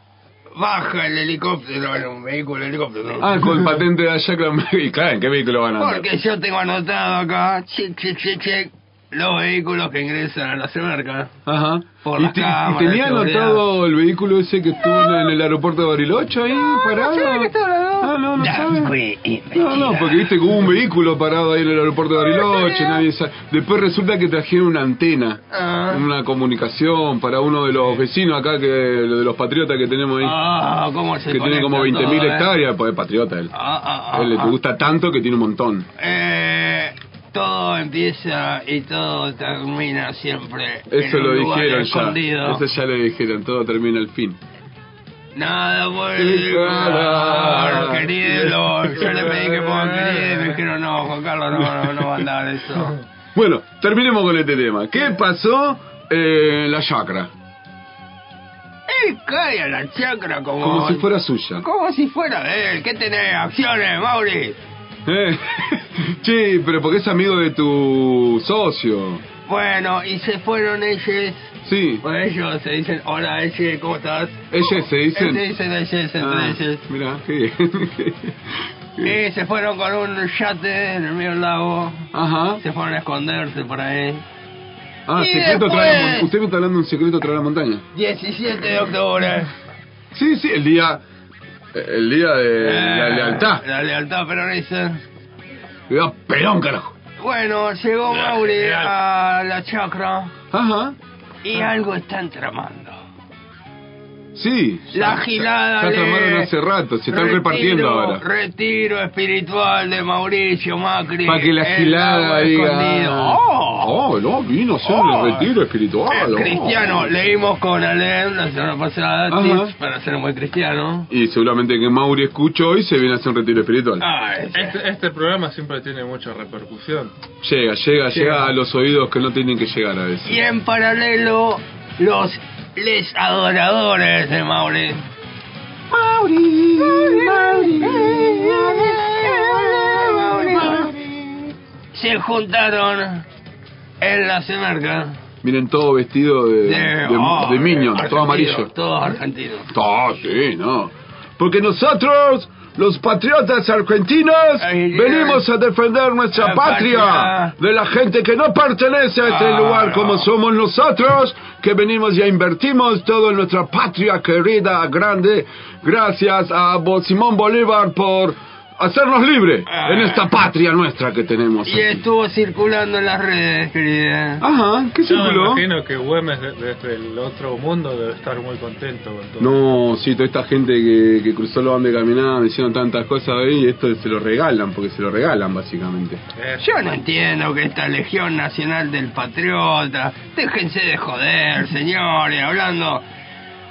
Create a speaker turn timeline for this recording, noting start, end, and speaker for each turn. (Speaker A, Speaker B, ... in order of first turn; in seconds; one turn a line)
Speaker A: 0.6-3.7
Speaker B: 3.2-6.1
Speaker A: 5.8-11.3
Speaker B: 11.5-18.9
Speaker A: 12.0-13.6
Speaker A: 14.8-15.3
Speaker A: 16.5-20.3
Speaker B: 19.5-30.4
Speaker A: 22.2-23.0
Speaker A: 25.5-26.1
Speaker A: 30.2-32.5
Speaker B: 31.3-33.5
Speaker A: 33.5-34.5
Speaker B: 34.1-35.9
Speaker A: 36.0-42.6
Speaker B: 40.9-44.4
Speaker A: 45.4-53.0
Speaker B: 46.2-50.1
Speaker B: 51.8-52.1
Speaker B: 53.4-57.3
Speaker A: 58.9-61.0
Speaker B: 60.6-61.6
Speaker A: 61.6-64.6
Speaker B: 65.1-69.2
Speaker A: 69.5-76.8
Speaker B: 71.6-72.0
Speaker B: 74.5-75.4
Speaker B: 76.2-79.1
Speaker A: 79.0-82.1
Speaker B: 82.1-82.6
Speaker A: 82.6-84.2
Speaker B: 85.1-87.8
Speaker A: 85.2-86.3
Speaker A: 87.9-89.5
Speaker B: 90.1-91.0
Speaker B: 91.7-93.6
Speaker A: 92.6-95.0
Speaker B: 95.9-97.0
Speaker A: 97.2-100.3
Speaker C: 98.5-98.9
Speaker B: 100.5-101.0
Speaker A: 101.4-103.0
Speaker B: 104.3-108.2
Speaker A: 104.9-106.5
Speaker A: 107.1-113.9
Speaker B: 111.3-117.0
Speaker A: 114.8-115.5
Speaker A: 116.1-121.1
Speaker B: 119.3-119.7
Speaker B: 121.1-124.0
Speaker A: 124.0-124.8
Speaker C: 124.5-127.1
Speaker B: 127.4-130.4
Speaker C: 128.1-128.5
Speaker A: 130.3-135.0
Speaker B: 135.9-141.4
Speaker A: 136.9-140.9
Speaker A: 141.9-143.2
Speaker A: 144.0-145.2
Speaker B: 145.4-148.7
Speaker A: 146.7-149.7
Speaker B: 149.7-172.0
Speaker A: 154.6-155.4
Speaker A: 156.3-157.5
Speaker A: 159.2-160.3
Speaker A: 169.7-170.2
Speaker A: 171.7-174.4
Speaker B: 174.4-175.6
Speaker C: 175.1-179.6
Speaker B: 179.4-186.2
Speaker C: 186.4-186.7
Speaker A: 186.6-193.1